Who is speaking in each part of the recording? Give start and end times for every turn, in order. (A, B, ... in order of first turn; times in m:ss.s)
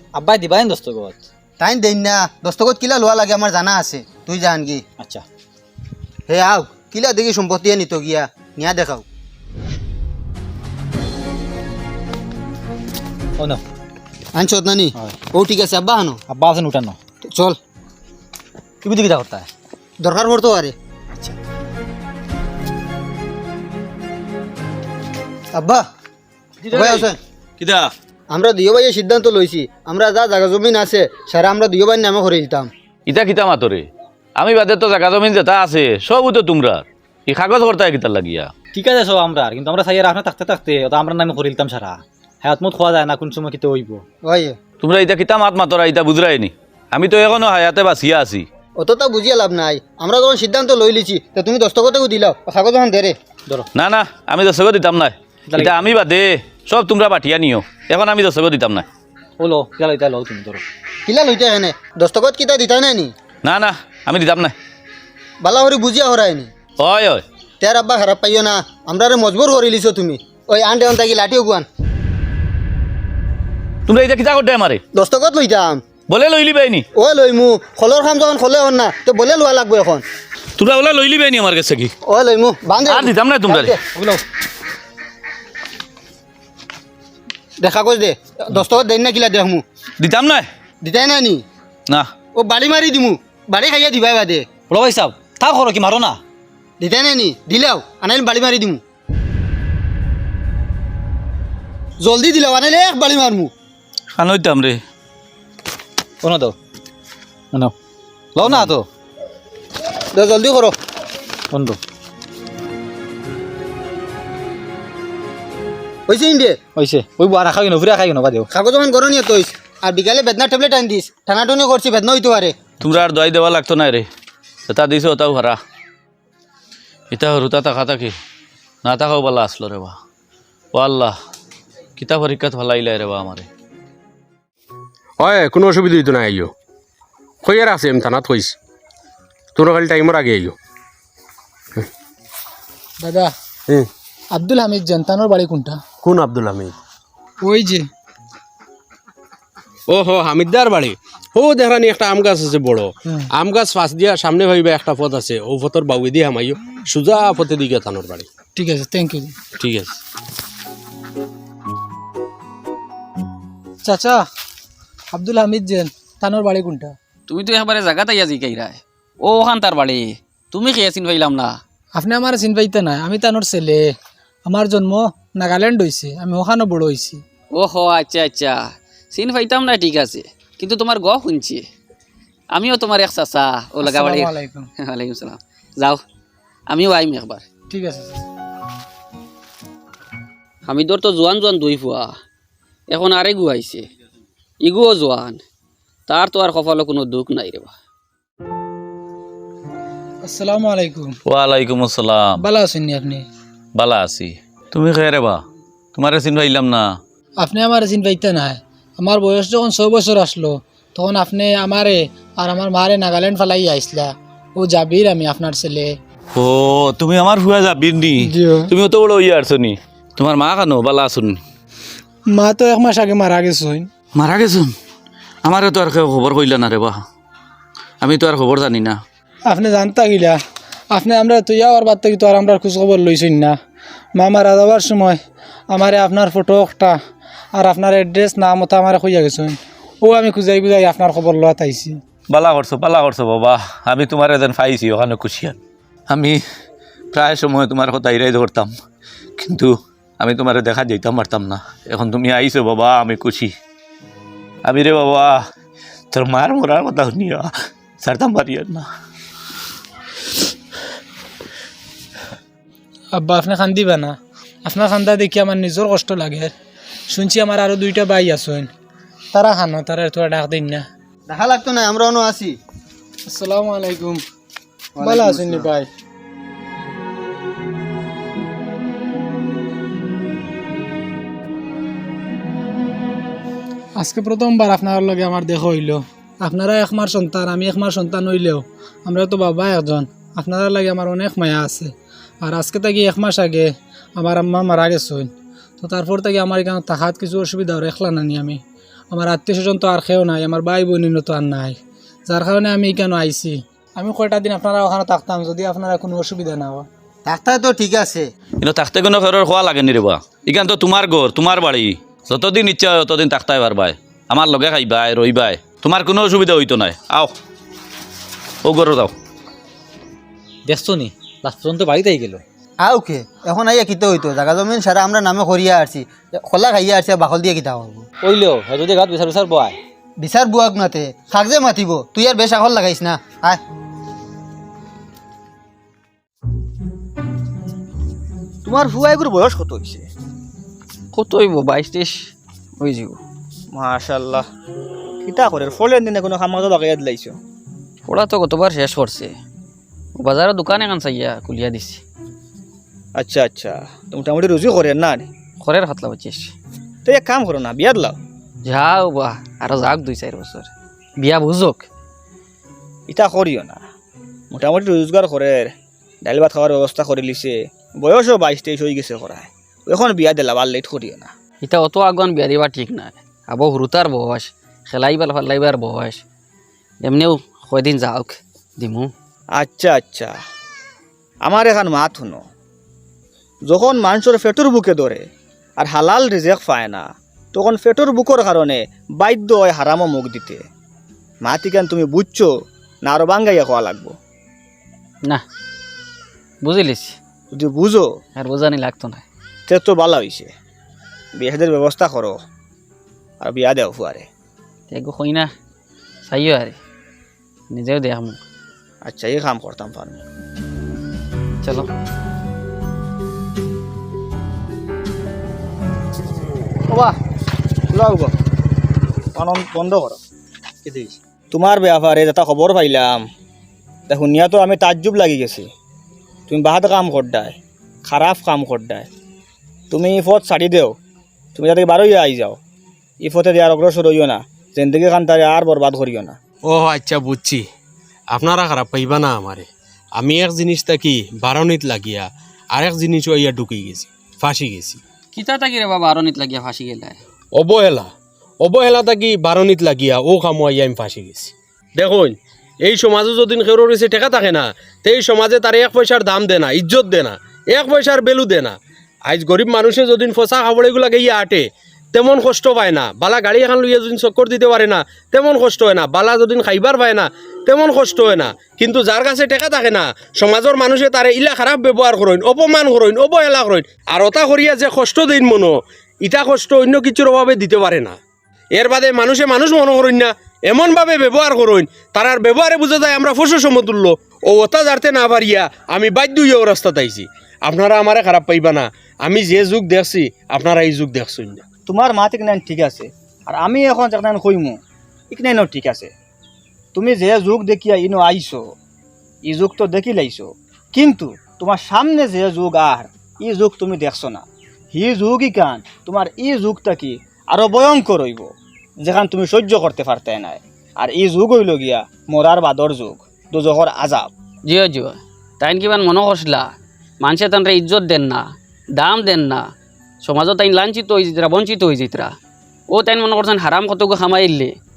0:00.2-0:01.2 A
0:01.6-0:04.8 B
0:05.0-0:05.2 A
0:06.3-0:09.0 B
0:14.3-0:16.2 B
0:16.3-0:17.0 A
0:17.3-0:17.6 B
0:18.8-0:19.5 A
0:20.0-0:20.7 B
0:25.5-0:25.8 B
0:26.7-0:27.2 B
0:27.6-0:27.9 C
0:28.3-0:32.7 B
0:33.1-0:33.8 C
0:34.4-0:38.5 C
0:38.7-0:44.0 A
0:44.2-0:44.6 B
0:44.8-0:48.5 C
0:48.8-0:53.2 B
0:53.7-0:58.8 C
0:55.5-0:55.8 A
0:59.4-1:00.6 A
1:01.0-1:03.1 B
1:03.4-1:04.5 C
1:05.4-1:06.5 B
1:06.8-1:07.2 C
1:07.6-1:11.6 B
1:13.9-1:14.8 C
1:14.9-1:15.8 B
1:16.1-1:16.8 C
1:16.9-1:20.0 B
1:20.6-1:21.9 C
1:22.1-1:24.2 B
1:22.8-1:23.8 C
1:27.6-1:29.6 B
1:30.0-1:30.5 C
1:30.8-1:31.4 B
1:32.3-1:34.4 B
1:34.7-1:36.2 A
1:36.8-1:38.8 B
1:42.0-1:43.5 B
1:44.1-1:44.8 C
1:46.2-1:46.6 A
1:48.3-1:48.8 A
1:50.1-1:50.8 B
1:51.5-1:51.8 A
1:56.1-1:56.6 B
1:56.8-1:58.5 A
1:58.5-2:02.6 B
2:02.8-2:04.1 C
2:04.7-2:05.6 C
2:07.1-2:08.1 C
2:08.8-2:09.9 C
2:10.7-2:11.1 C
2:12.0-2:13.5 C
2:15.2-2:16.5 D
2:17.4-2:18.5 D
2:19.5-2:20.5 D
2:23.0-2:23.3 E
2:24.3-2:25.8 E
2:26.0-2:26.7 D
2:27.4-2:27.9 E
2:29.9-2:38.3 D
2:38.6-2:39.3 E
2:39.6-2:40.0 D
2:43.8-2:44.2 E
2:45.1-2:46.9 E
2:47.3-2:51.6 F
2:51.9-2:53.9 E
2:54.4-2:57.2 E
2:57.5-3:01.6 F
3:02.5-3:06.0 F
3:03.8-3:04.7 E
3:06.7-3:07.4 F
3:07.7-3:08.2 E
3:10.7-3:12.1 F
3:12.9-3:13.8 F
3:14.6-3:15.4 F
3:16.1-3:17.7 F
3:20.2-3:21.2 E
3:21.3-3:22.3 C
3:22.4-3:23.2 E
3:23.8-3:25.4 C
3:25.9-3:26.9 C
3:27.4-3:35.9 E
3:36.3-3:41.4 C
3:38.2-3:38.7 E
3:42.3-3:43.9 E
3:44.1-3:44.7 C
3:45.4-3:47.0 C
3:48.0-3:49.0 C
3:49.4-3:50.4 E
3:50.9-3:53.6 E
3:54.1-3:57.0 E
3:57.5-4:02.0 E
4:02.3-4:05.6 C
4:06.1-4:06.4 C
4:07.1-4:08.7 C
4:09.4-4:13.5 C
4:14.6-4:15.4 C
4:16.1-4:18.9 C
4:23.1-4:26.5 E
4:27.1-4:28.7 E
4:29.3-4:30.8 E
4:31.3-4:32.6 B
4:33.3-4:34.2 E
4:35.0-4:35.7 B
4:35.0-4:35.9 E
4:44.0-5:06.9 E
5:07.2-5:08.3 B
5:08.6-5:17.3 C
5:18.6-5:19.1 C
5:20.6-5:22.4 A
5:22.8-5:28.1 B
5:28.2-5:29.8 A
5:30.2-5:33.6 B
5:38.6-5:40.0 G
5:41.1-5:43.2 F
5:43.7-5:44.4 G
5:45.2-5:47.3 G
5:48.1-5:49.3 F
5:50.2-5:52.0 F
5:53.2-5:55.2 G
5:55.6-5:56.5 F
5:57.1-5:58.2 G
5:58.6-6:01.9 F
6:03.1-6:03.8 G
6:04.5-6:11.3 G
6:11.6-6:16.2 F
6:17.0-6:19.1 F
6:19.6-6:20.3 G
6:21.4-6:22.4 G
6:23.7-6:25.2 G
6:25.8-6:30.6 G
6:31.4-6:32.5 G
6:33.0-6:34.1 G
6:36.6-6:37.2 F
6:37.5-6:38.0 G
6:38.4-6:39.2 F
6:39.7-6:40.5 G
6:41.4-6:42.4 G
6:43.4-6:44.3 G
6:44.9-6:45.5 F
6:46.2-6:46.8 F
6:47.7-6:48.4 F
6:49.0-6:50.2 G
6:51.6-6:51.9 F
6:56.9-6:57.2 B
6:57.9-6:58.3 B
6:59.3-7:00.2 G
7:00.9-7:01.1 B
7:01.0-7:03.2 G
7:04.1-7:05.7 G
7:06.5-7:09.1 G
7:09.9-7:10.9 G
7:11.6-7:12.6 G
7:13.2-7:16.4 G
7:16.6-7:17.7 D
7:18.3-7:25.0 D
7:25.3-7:27.2 F
7:27.6-7:58.2 D
7:58.7-8:11.6 D
8:11.9-8:14.8 G
8:15.3-8:16.1 G
8:17.0-8:18.6 G
8:19.5-8:28.5 G
8:29.0-8:34.3 G
8:34.6-8:36.7 F
8:37.2-8:38.4 F
8:39.0-8:39.6 F
8:40.2-8:42.3 F
8:42.9-8:44.7 F